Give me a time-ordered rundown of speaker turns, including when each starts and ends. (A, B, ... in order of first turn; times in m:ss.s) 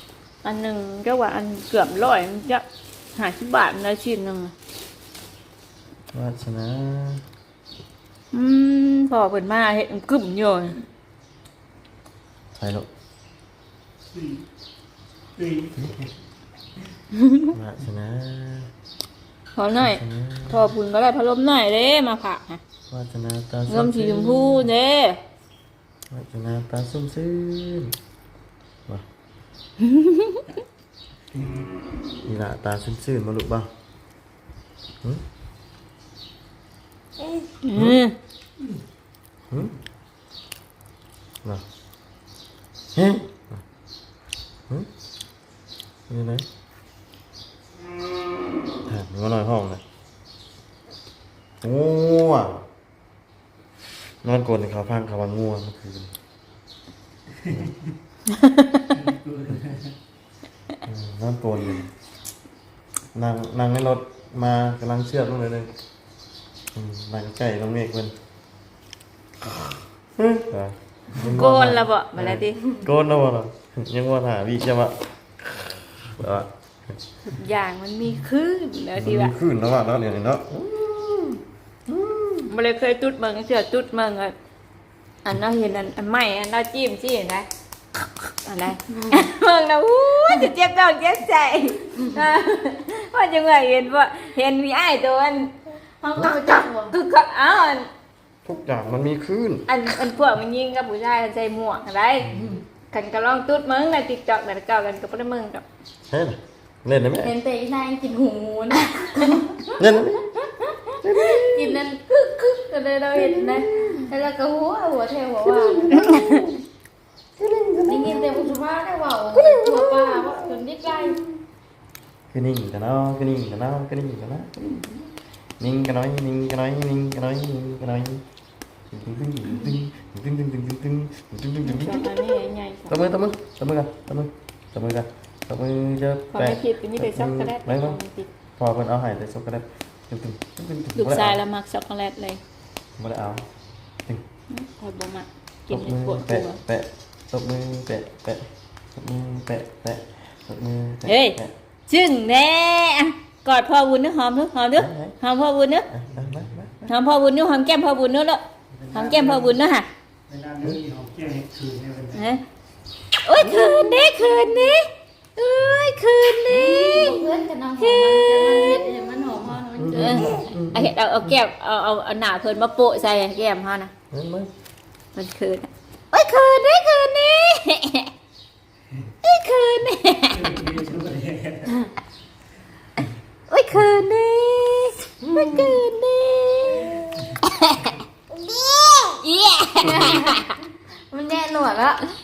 0:00.4-0:04.5 A
0:06.1-0:07.2 B
0:08.3-0:10.8 A
0:12.5-0:12.9 B
0:14.1-0:14.4 C
0:15.4-0:16.1 C
0:17.1-0:17.5 A
0:17.5-0:18.7 B
0:19.6-0:22.6 A
0:19.8-0:20.7 B
0:22.9-0:24.6 B
0:23.7-0:25.2 A
0:26.1-0:27.9 B
0:29.8-0:30.4 A
0:31.3-0:31.7 C
0:32.2-0:33.7 B
0:37.6-0:38.1 A
0:37.7-0:38.0 B
0:39.5-0:39.7 B
0:42.9-0:43.6 B
0:46.1-0:46.4 B
0:48.8-0:49.8 B
0:51.6-0:52.6 B
0:54.2-0:56.1 B
0:57.5-0:57.7 B
0:58.3-0:58.8 A
0:58.9-1:00.0 C
1:00.8-1:01.9 B
1:03.1-1:05.7 B
1:06.7-1:08.1 B
1:10.2-1:16.5 B
1:11.2-1:12.8 A
1:17.2-1:19.3 A
1:19.0-1:22.5 B
1:22.5-1:24.3 A
1:25.2-1:27.5 A
1:28.3-1:35.5 A
1:28.9-1:29.2 D
1:36.0-1:36.9 D
1:36.2-1:37.9 A
1:38.4-1:39.7 B
1:39.7-1:42.3 A
1:42.3-1:42.6 D
1:42.9-1:45.6 A
1:46.1-1:47.3 B
1:47.2-1:49.8 D
1:49.7-1:50.3 B
1:50.4-1:55.9 D
1:51.0-1:51.8 B
1:53.1-1:54.1 B
1:55.4-1:56.6 B
1:57.4-1:58.6 B
1:57.8-2:01.2 D
1:59.3-2:01.4 B
2:02.3-2:08.2 B
2:08.9-2:12.2 B
2:11.6-2:13.0 A
2:12.9-2:18.0 B
2:16.3-2:18.3 A
2:18.6-2:21.4 B
2:21.0-2:22.4 A
2:23.0-2:23.4 B
2:24.5-2:26.6 A
2:25.7-2:31.5 B
2:31.1-2:35.9 A
2:34.8-2:35.2 B
2:35.9-2:36.9 B
2:36.2-2:36.6 C
2:36.8-2:38.4 A
2:38.7-2:39.6 C
2:38.9-2:39.9 A
2:40.3-2:42.3 C
2:42.1-2:42.4 A
2:43.2-2:49.0 A
2:43.4-2:44.2 B
2:46.5-2:50.4 D
2:46.6-2:47.2 B
2:49.8-2:51.4 B
2:50.0-2:53.9 A
2:54.1-2:54.5 B
2:55.1-2:58.1 A
2:59.2-3:00.4 A
3:00.3-3:01.8 C
3:03.5-3:08.0 A
3:08.7-3:10.6 A
3:09.8-3:10.2 C
3:09.9-3:10.4 D
3:11.1-3:12.0 D